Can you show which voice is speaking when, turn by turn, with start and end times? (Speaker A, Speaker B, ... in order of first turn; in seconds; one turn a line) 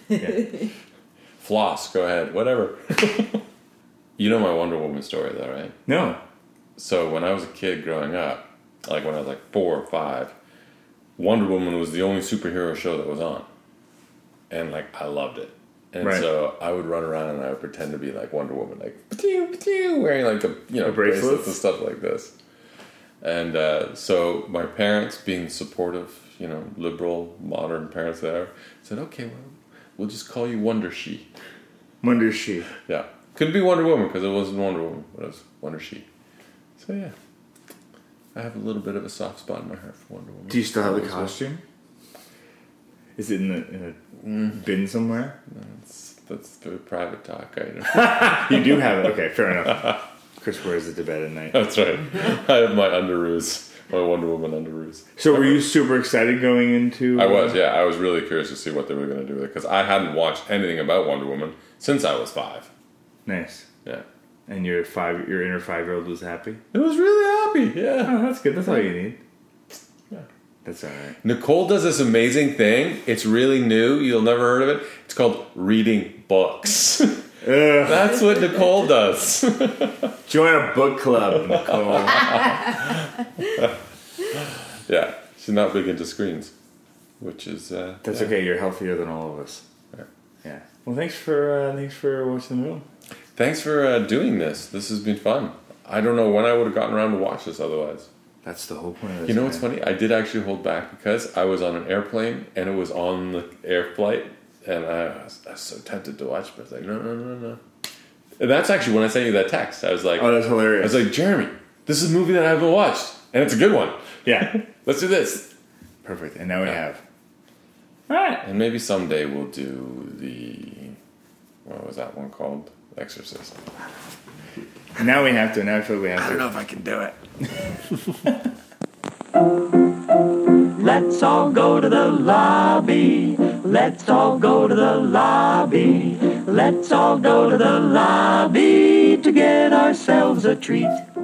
Speaker A: 0.1-0.5
Speaker B: 1.4-3.4
Speaker B: 4.2-5.7
Speaker A: 5.8-6.2
Speaker B: 6.8-10.3
Speaker B: 11.2-13.5
Speaker B: 14.5-22.3
Speaker A: 20.8-21.6
Speaker B: 23.2-31.3
Speaker A: 32.0-32.7
Speaker B: 32.9-36.0
Speaker B: 36.8-37.1
Speaker B: 38.3-41.4
Speaker A: 40.5-41.6
Speaker A: 43.2-44.0
Speaker B: 44.2-44.5
Speaker A: 44.5-45.4
Speaker B: 45.5-48.8
Speaker A: 47.9-51.6
Speaker B: 51.5-55.6
Speaker A: 55.2-57.6
Speaker B: 57.1-62.7
Speaker A: 63.2-63.7
Speaker A: 64.5-66.6
Speaker B: 66.7-68.2
Speaker A: 68.0-69.2
Speaker A: 70.6-71.2
Speaker B: 71.2-80.2
Speaker A: 77.4-78.2
Speaker A: 80.3-82.5
Speaker B: 81.6-83.7
Speaker B: 84.3-86.5
Speaker B: 87.2-88.3
Speaker A: 88.0-89.6
Speaker A: 90.4-92.8
Speaker B: 93.3-98.1
Speaker A: 98.4-99.7
Speaker B: 99.2-107.6
Speaker B: 108.4-115.5
Speaker A: 110.2-111.0
Speaker A: 114.2-114.6
Speaker A: 116.0-117.0
Speaker A: 118.1-118.4
Speaker B: 118.4-121.0
Speaker B: 121.6-123.7
Speaker A: 125.0-126.7
Speaker B: 126.4-127.1
Speaker C: 130.8-141.0